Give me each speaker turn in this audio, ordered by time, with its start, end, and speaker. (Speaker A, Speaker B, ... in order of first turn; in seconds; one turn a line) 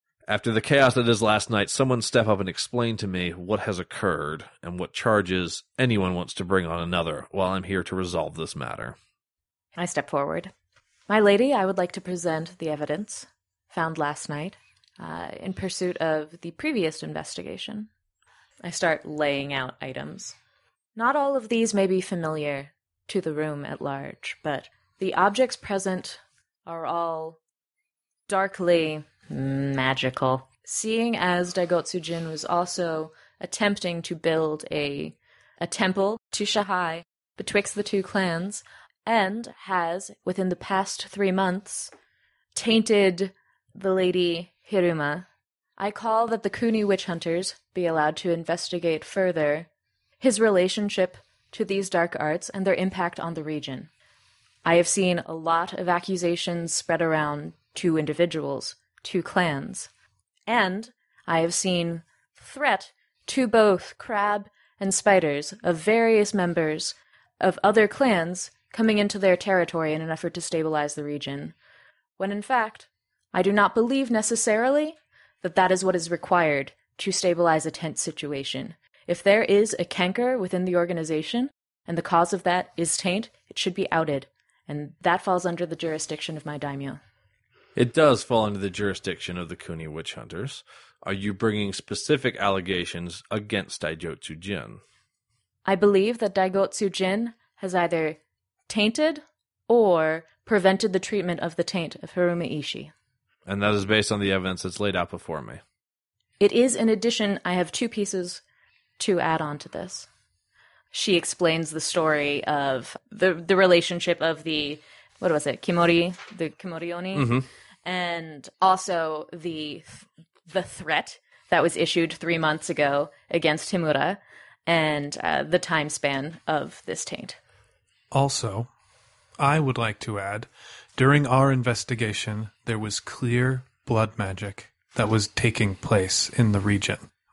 Speaker A: 0.3-8.9
Speaker B: 9.8-10.5
Speaker B: 11.1-17.9
Speaker B: 18.6-20.3
Speaker B: 20.9-27.4
Speaker B: 28.3-41.9
Speaker B: 42.5-45.3
Speaker B: 45.8-49.7
Speaker B: 50.2-53.9
Speaker B: 54.6-59.9
Speaker B: 60.5-71.5
Speaker B: 72.2-87.0
Speaker A: 87.8-94.8
Speaker B: 95.6-102.9
Speaker A: 103.5-105.6
Speaker B: 106.4-108.4
Speaker B: 109.0-110.1
Speaker B: 110.9-127.4
Speaker A: 117.1-117.5
Speaker C: 128.1-128.7
Speaker C: 129.4-137.1